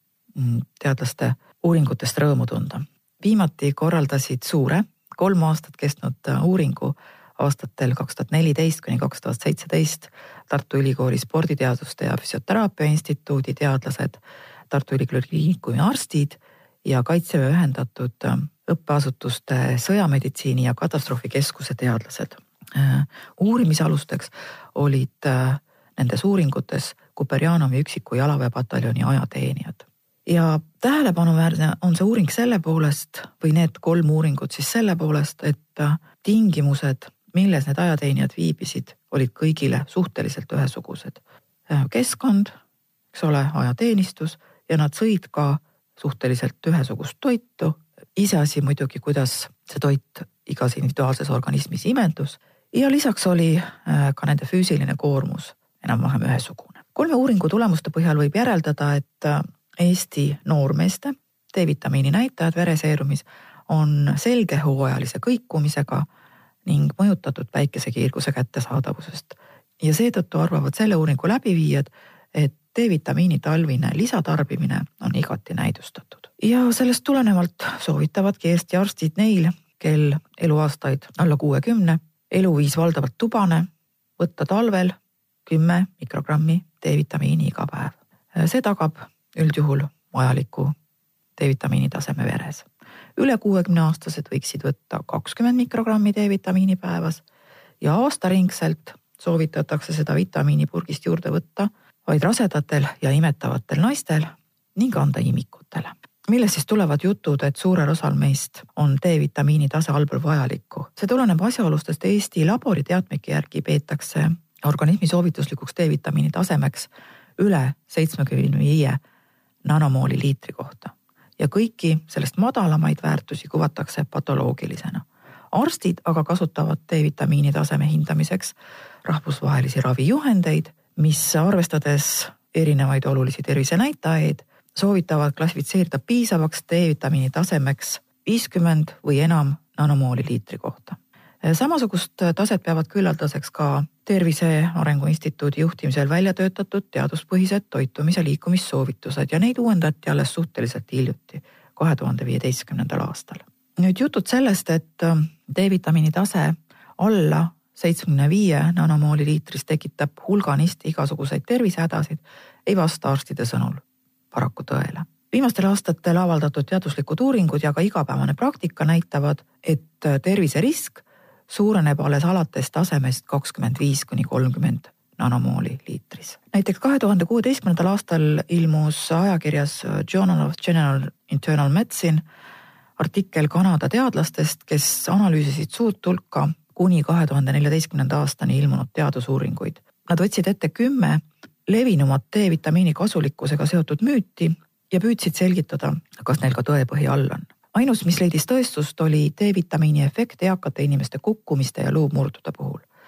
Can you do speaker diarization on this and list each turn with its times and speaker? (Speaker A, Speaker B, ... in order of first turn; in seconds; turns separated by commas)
Speaker A: 0.3-42.5, Speaker A: 43.1-66.1, Speaker A: 66.6-90.7, Speaker A: 91.4-97.2, Speaker A: 97.8-119.0, Speaker A: 119.6-182.2, Speaker A: 183.0-202.8